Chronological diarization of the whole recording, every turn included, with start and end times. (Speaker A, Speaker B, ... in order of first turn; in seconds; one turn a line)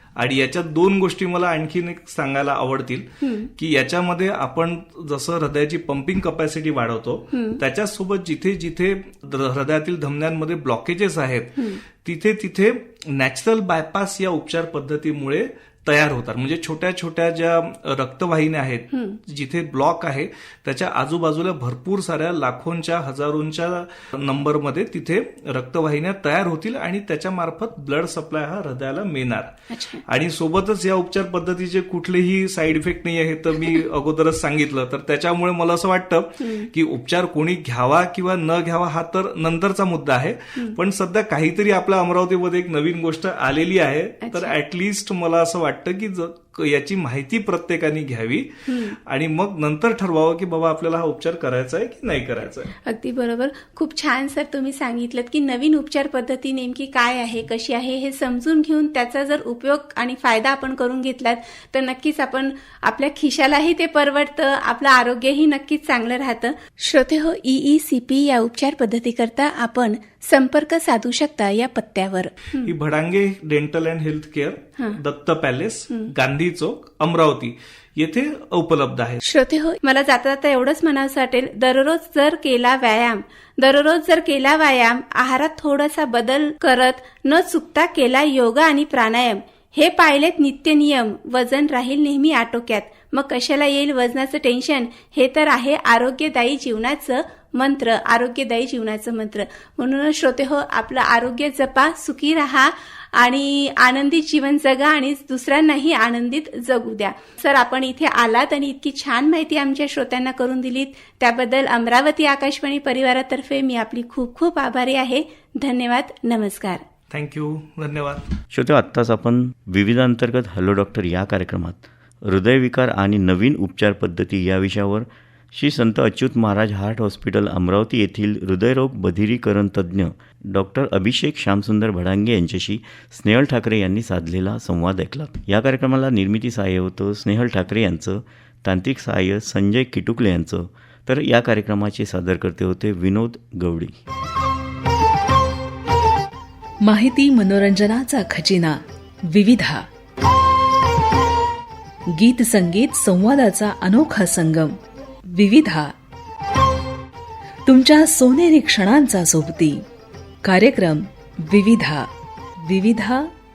Speaker A: 0.2-29.5
Speaker B: 3.2-3.5
Speaker B: 7.3-7.6
Speaker B: 11.6-11.8
Speaker B: 18.9-19.2
Speaker B: 29.7-30.0
Speaker A: 30.1-52.7
Speaker B: 36.4-36.7
Speaker B: 44.2-44.5
Speaker B: 48.7-49.0
Speaker B: 52.8-72.7
Speaker A: 72.7-79.2
Speaker B: 79.2-116.8
Speaker A: 117.1-118.3
Speaker C: 118.5-144.0
Speaker D: 146.8-149.9
Speaker D: 152.1-154.8
Speaker D: 155.3-155.9
Speaker D: 157.7-159.8
Speaker D: 160.4-162.1
Speaker D: 162.6-163.3